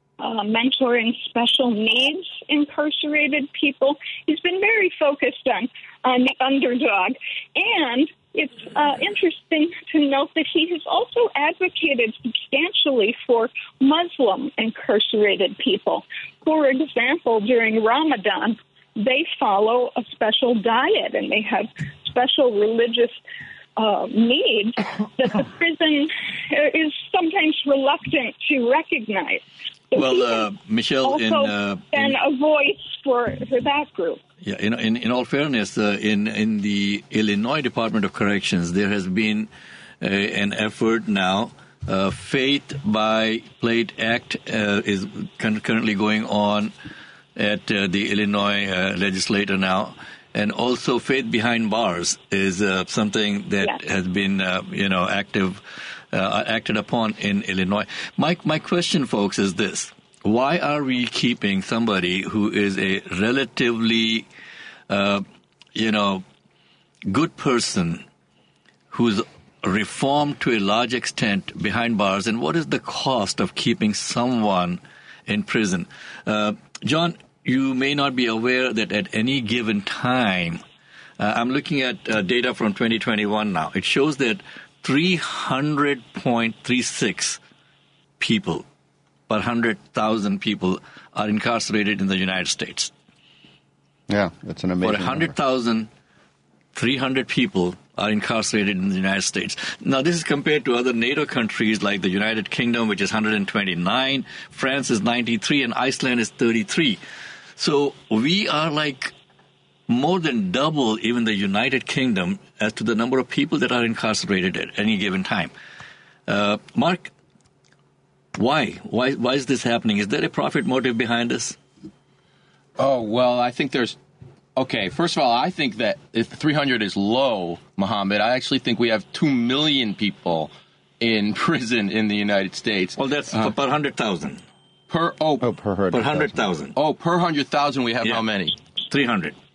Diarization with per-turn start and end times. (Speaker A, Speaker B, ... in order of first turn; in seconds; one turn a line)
Speaker A: 0.2-23.2
Speaker A: 23.8-29.4
Speaker A: 29.9-30.4
Speaker B: 29.9-32.1
Speaker A: 31.0-34.2
Speaker B: 34.4-39.5
Speaker B: 40.0-46.7
Speaker B: 47.4-64.2
Speaker B: 64.9-65.2
Speaker B: 65.7-66.2
Speaker B: 67.1-68.0
Speaker B: 68.9-80.6
Speaker B: 81.2-87.4
Speaker B: 88.2-88.7
Speaker B: 89.3-92.9
Speaker C: 94.1-95.3
Speaker B: 94.8-95.9
Speaker B: 96.7-107.0
Speaker B: 107.6-109.1
Speaker B: 109.9-115.5
Speaker B: 116.3-117.1
Speaker B: 118.3-121.6
Speaker D: 122.8-124.0
Speaker D: 124.5-130.5
Speaker D: 131.0-133.0
Speaker B: 133.0-134.4
Speaker D: 134.9-135.4
Speaker C: 135.4-136.5
Speaker B: 135.9-136.7
Speaker D: 136.7-138.6
Speaker B: 138.9-139.3